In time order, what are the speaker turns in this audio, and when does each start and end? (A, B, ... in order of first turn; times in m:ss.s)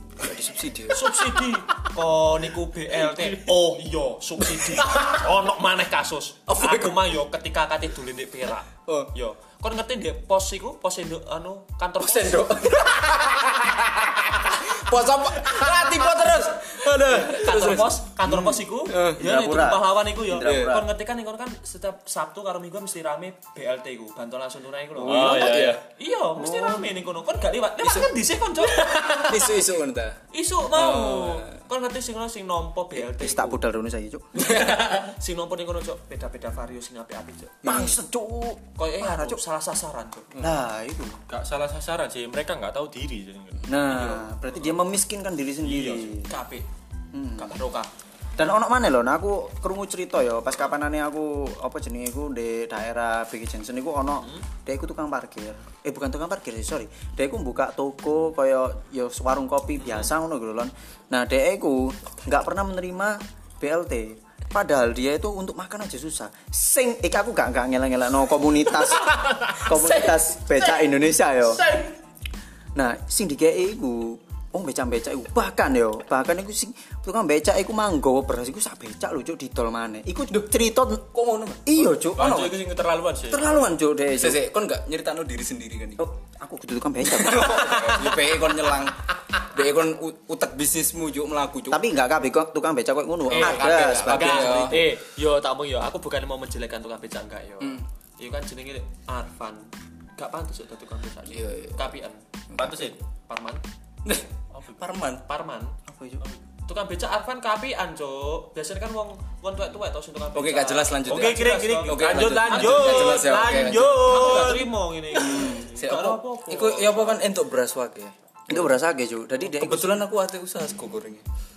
0:00.2-0:01.2 A
0:00.9-0:12.8 B
0:06.5-0:07.0 A
0:12.0-0:18.0 A
0:16.7-0:29.6 B
0:18.2-0:20.9 C
0:18.9-0:19.2 A
0:20.3-0:20.8 A
0:25.0-0:25.6 C
0:25.0-0:25.8 D
0:25.0-0:25.8 A
0:26.4-0:26.9 C
0:27.8-0:30.2 A
0:30.3-0:33.6 B
0:30.7-0:31.6 A
0:32.9-0:34.3 C
0:34.3-0:37.6 B
0:34.4-0:34.9 A
0:37.6-0:38.0 A
0:37.6-0:39.4 C
0:38.8-0:40.4 B
0:40.4-0:41.2 C
0:41.3-0:43.8 D
0:43.7-0:46.3 C
0:43.8-0:44.7 B
0:45.6-0:46.0 D
0:45.8-0:46.7 B
0:47.1-0:47.6 C
0:47.4-0:47.9 B
0:48.4-1:11.6 C
0:54.2-0:54.4 B
0:59.8-1:00.1 B
1:08.9-1:10.2 D
1:11.6-1:11.9 D
1:12.7-1:22.6 C
1:21.2-1:21.5 A
1:22.1-1:23.5 D
1:23.3-1:24.4 C
1:24.1-1:26.0 A
1:26.0-1:28.2 C
1:27.1-1:31.8 A
1:31.7-1:34.9 C
1:33.3-1:34.2 D
1:33.3-1:42.2 B
1:33.3-1:34.8 A
1:41.2-1:41.9 A
1:42.5-1:43.0 A
1:42.6-1:43.0 D
1:43.2-1:43.6 B
1:44.0-1:45.2 A
1:44.5-1:44.8 D
1:45.2-1:45.8 B
1:45.8-1:46.2 C
1:46.6-1:53.4 B
1:50.3-1:54.5 A
1:51.0-1:54.7 D
1:54.0-1:57.2 B
1:55.1-1:58.7 A
1:55.3-1:55.6 C
1:58.5-2:00.1 C
1:59.4-2:01.2 A